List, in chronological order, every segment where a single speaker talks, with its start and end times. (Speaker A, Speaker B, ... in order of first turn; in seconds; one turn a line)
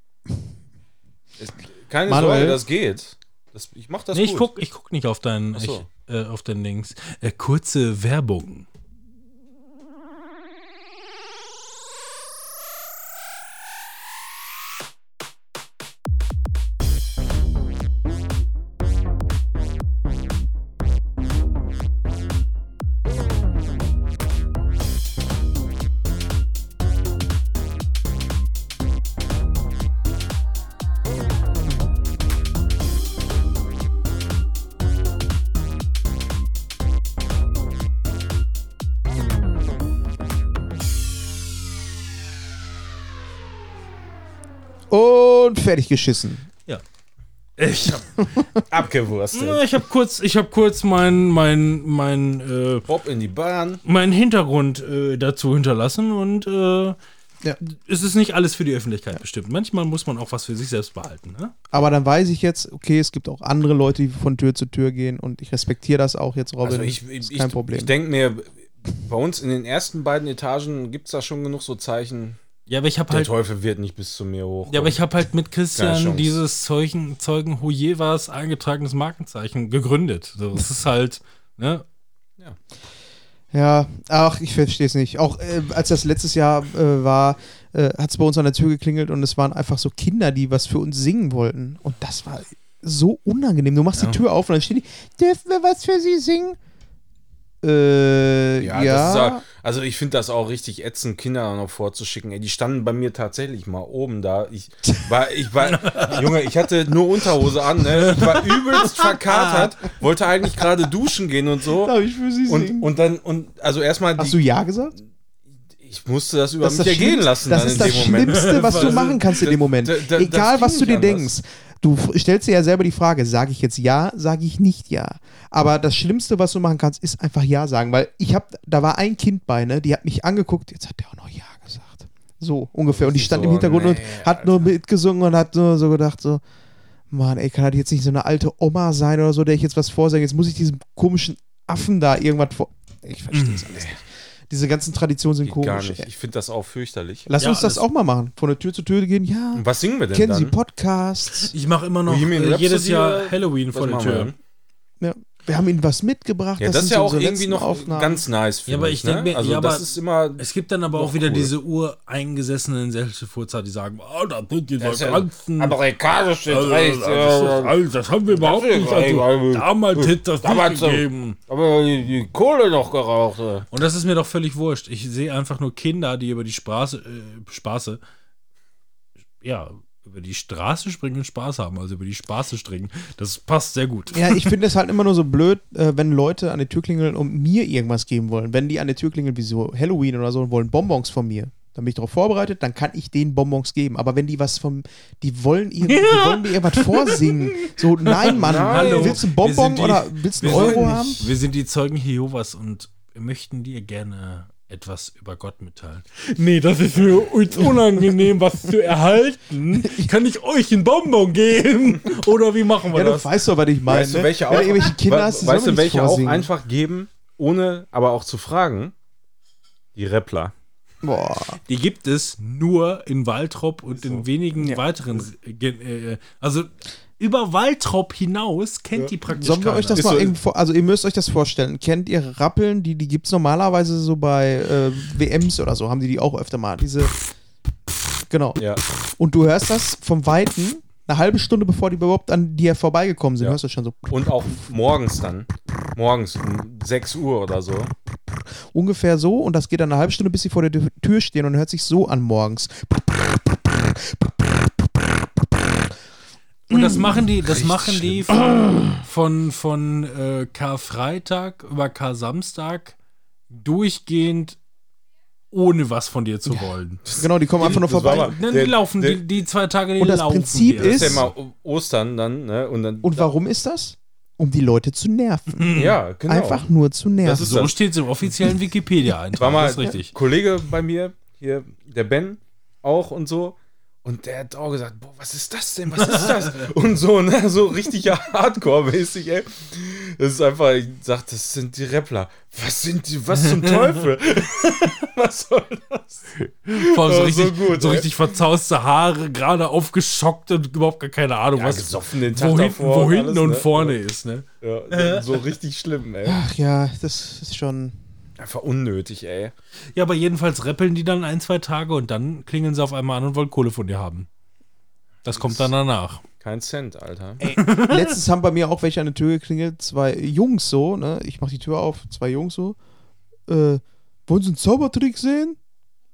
Speaker A: 1.4-4.5
Speaker B: 2.1-2.6
Speaker C: 4.1-8.7
Speaker A: 5.5-5.8
Speaker B: 44.9-46.5
Speaker C: 47.6-48.1
Speaker A: 48.7-49.6
Speaker C: 49.3-52.9
Speaker A: 52.9-53.8
Speaker C: 53.8-57.0
Speaker C: 57.6-61.6
Speaker B: 61.7-67.9
Speaker A: 66.6-72.4
Speaker C: 72.7-73.3
Speaker A: 73.1-75.0
Speaker C: 74.7-81.8
Speaker A: 75.7-76.4
Speaker B: 83.5-96.6
Speaker B: 97.6-99.4
Speaker A: 98.6-114.4
Speaker C: 105.7-106.2
Speaker C: 108.0-108.5
Speaker B: 108.8-109.7
Speaker B: 111.8-112.9
Speaker B: 114.2-114.9
Speaker A: 115.8-121.3
Speaker B: 116.6-136.4
Speaker C: 118.1-119.2
Speaker A: 132.9-134.7
Speaker B: 137.1-146.1
Speaker C: 143.3-143.6
Speaker A: 145.4-147.3
Speaker B: 147.3-151.5
Speaker C: 147.4-147.8
Speaker A: 149.5-150.5
Speaker C: 151.3-154.3
Speaker A: 152.1-154.3
Speaker B: 155.0-158.2
Speaker A: 156.6-161.5
Speaker C: 158.7-159.8
Speaker C: 160.4-165.8
Speaker A: 164.8-173.7
Speaker C: 166.5-171.4
Speaker C: 173.7-178.0
Speaker C: 179.4-184.5
Speaker B: 184.1-201.3
Speaker C: 195.8-213.3
Speaker A: 198.3-199.2
Speaker A: 200.4-200.8
Speaker B: 209.7-210.1
Speaker B: 212.9-216.5
Speaker A: 213.9-218.9
Speaker A: 219.9-220.5
Speaker B: 221.0-221.6
Speaker C: 221.7-230.2
Speaker A: 223.9-224.2
Speaker B: 229.3-237.1
Speaker A: 229.9-230.3
Speaker B: 238.3-238.6
Speaker A: 238.6-238.8
Speaker B: 239.2-244.2
Speaker A: 243.4-247.9
Speaker B: 248.7-255.5
Speaker C: 256.7-262.9
Speaker B: 256.7-257.2
Speaker A: 257.4-258.3
Speaker B: 258.4-259.0
Speaker C: 263.5-264.6
Speaker C: 265.5-267.1
Speaker B: 266.5-268.4
Speaker A: 267.1-269.2
Speaker C: 267.6-271.2
Speaker B: 270.0-271.3
Speaker A: 270.8-273.3
Speaker B: 273.0-277.6
Speaker C: 275.6-276.0
Speaker A: 275.7-276.6
Speaker A: 277.2-277.7
Speaker C: 277.2-280.1
Speaker A: 279.4-298.1
Speaker C: 286.0-286.7
Speaker C: 293.6-294.0
Speaker C: 296.7-305.4
Speaker A: 301.5-304.0
Speaker A: 304.6-306.4
Speaker B: 306.2-308.1
Speaker A: 308.4-309.5
Speaker C: 309.9-314.3
Speaker C: 315.2-316.2
Speaker A: 315.3-315.7
Speaker A: 316.4-317.4
Speaker B: 317.4-322.8
Speaker C: 317.4-318.1
Speaker B: 323.5-325.6